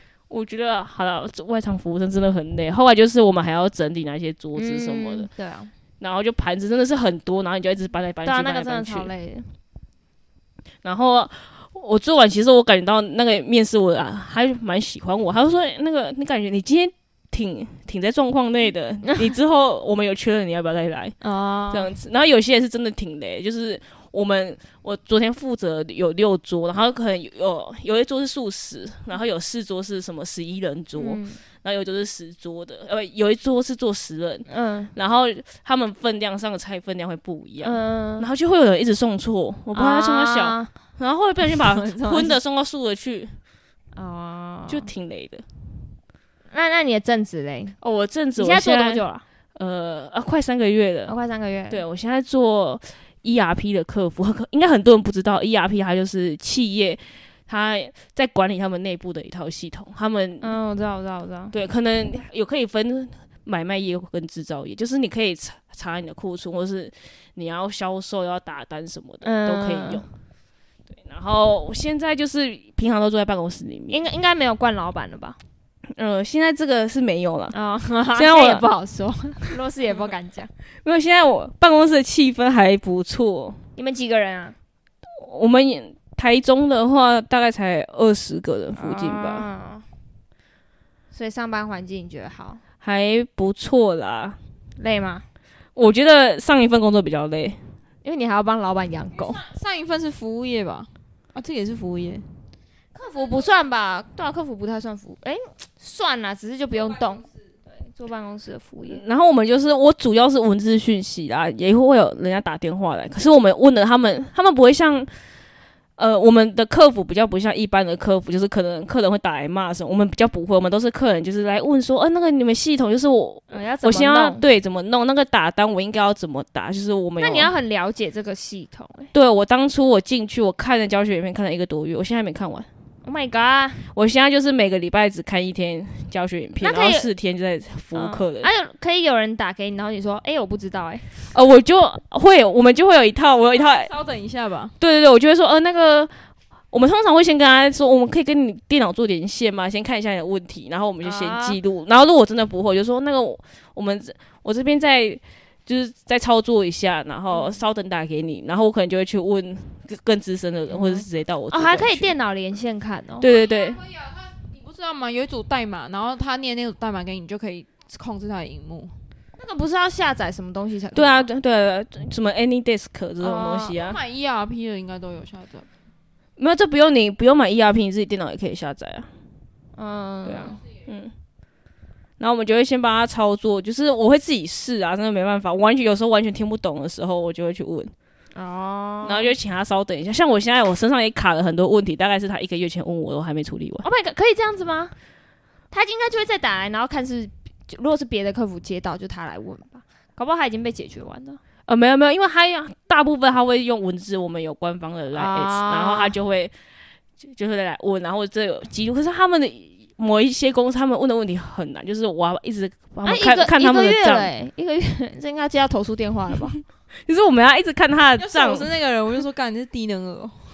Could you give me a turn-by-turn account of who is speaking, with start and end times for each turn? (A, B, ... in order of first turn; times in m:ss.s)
0:00.3-0:05.3 A
0:04.6-0:05.7 B
0:06.0-0:09.1 A
0:08.2-0:09.5 B
0:10.8-0:21.2 A
0:19.1-0:19.3 B
0:21.2-0:21.9 B
0:21.7-0:43.4 A
0:31.0-0:31.4 B
0:34.5-0:34.9 B
0:37.6-0:38.3 B
0:39.7-0:40.7 B
0:41.5-0:42.4 B
0:43.9-0:44.9 B
0:44.7-0:45.4 A
0:46.5-0:47.8 B
0:47.8-0:49.0 A
0:48.4-0:49.2 B
0:49.6-0:51.2 A
0:51.1-0:51.8 B
0:51.7-1:00.6 A
1:00.4-1:01.5 B
1:01.5-1:10.1 A
1:09.2-1:10.0 B
1:10.9-1:14.0 A
1:13.9-1:15.4 B
1:15.9-1:17.6 A
1:17.5-1:20.5 B
1:18.2-1:18.7 A
1:20.8-1:23.6 A
1:23.8-1:24.6 B
1:25.1-1:29.5 A
1:28.8-1:29.9 B
1:31.1-1:32.6 B
1:32.8-1:34.4 A
1:34.8-1:35.3 B
1:35.8-1:37.7 A
1:38.0-1:39.4 B
1:39.1-1:42.3 C
1:43.0-1:49.0 B
1:48.9-1:55.1 A
1:56.0-2:07.5 A
2:03.5-2:04.4 B
2:07.2-2:09.1 B
2:09.1-2:12.7 A
2:13.0-2:13.8 B
2:13.9-2:18.5 A
2:16.6-2:17.1 B
2:18.0-2:21.3 B
2:21.3-2:23.9 A
2:23.5-2:24.8 C
2:24.8-2:42.1 A
2:31.0-2:31.6 B
2:37.3-2:37.6 B
2:40.7-2:43.3 B
2:43.2-2:43.8 A
2:43.6-2:49.0 C
2:49.4-2:51.3 B
2:50.9-2:54.0 A
2:53.2-2:53.8 B
2:53.8-2:55.7 C
2:56.4-2:59.1 A
2:59.8-3:00.6 B
3:00.2-3:01.1 A
3:02.2-3:07.9 A
3:08.3-3:09.4 B
3:09.0-3:13.9 A
3:13.8-3:14.9 B
3:15.7-3:21.4 B
3:21.7-3:26.5 A
3:25.2-3:26.1 B
3:27.2-3:34.3 A
3:33.0-3:36.6 B
3:37.1-3:38.8 A
3:38.2-3:40.4 C